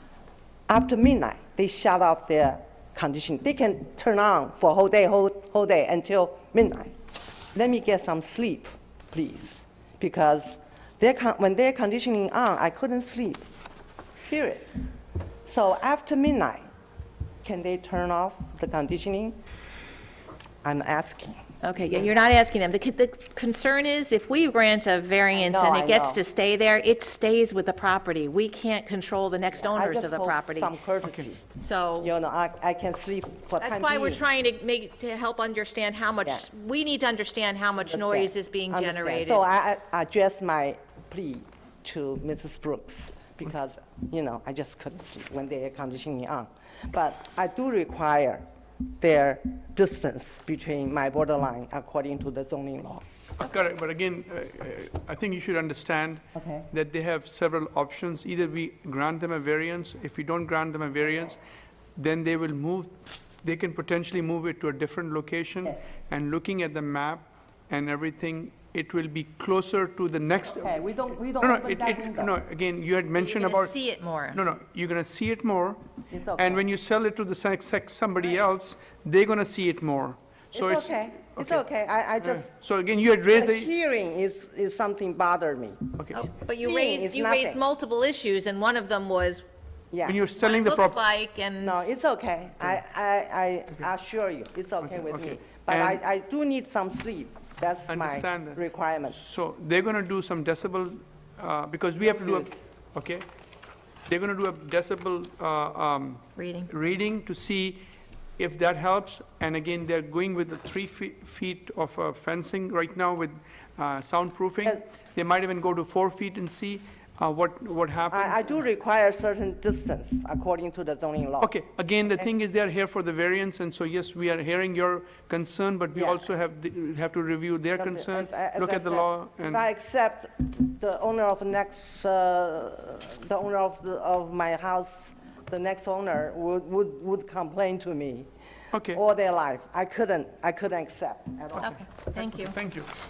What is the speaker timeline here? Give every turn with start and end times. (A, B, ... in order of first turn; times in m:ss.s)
0:00.7-0:06.9 A
0:07.5-0:13.4 A
0:14.2-0:14.7 A
0:15.4-0:16.7 A
0:17.4-0:19.4 A
0:20.6-0:21.4 A
0:21.6-0:30.7 B
0:25.3-0:26.2 A
0:29.5-0:31.4 A
0:31.5-0:32.1 B
0:32.0-0:34.3 A
0:33.6-0:39.5 B
0:37.8-0:48.4 A
0:49.0-0:53.0 A
0:53.4-1:01.4 C
0:56.3-0:56.7 A
1:02.0-1:10.8 C
1:10.5-1:12.3 A
1:11.4-1:13.8 C
1:13.1-1:14.4 B
1:14.3-1:15.8 C
1:16.1-1:16.6 A
1:16.3-1:21.6 C
1:20.5-1:22.5 A
1:22.2-1:23.7 C
1:23.3-1:27.6 A
1:26.0-1:26.2 C
1:26.1-1:29.4 B
1:29.9-1:30.3 A
1:30.0-1:31.0 C
1:30.3-1:31.9 B
1:31.6-1:39.2 A
1:34.8-1:36.0 C
1:37.9-1:43.2 C
1:42.0-1:42.6 A
1:44.1-1:47.8 C
1:46.4-1:46.7 B
1:48.4-1:58.6 C
1:58.1-2:01.5 A
2:01.4-2:09.6 C
2:05.9-2:06.2 A
2:07.7-2:18.3 A
2:18.7-2:19.0 C
2:18.9-2:21.8 A
2:21.6-2:22.6 B
2:21.6-2:22.9 C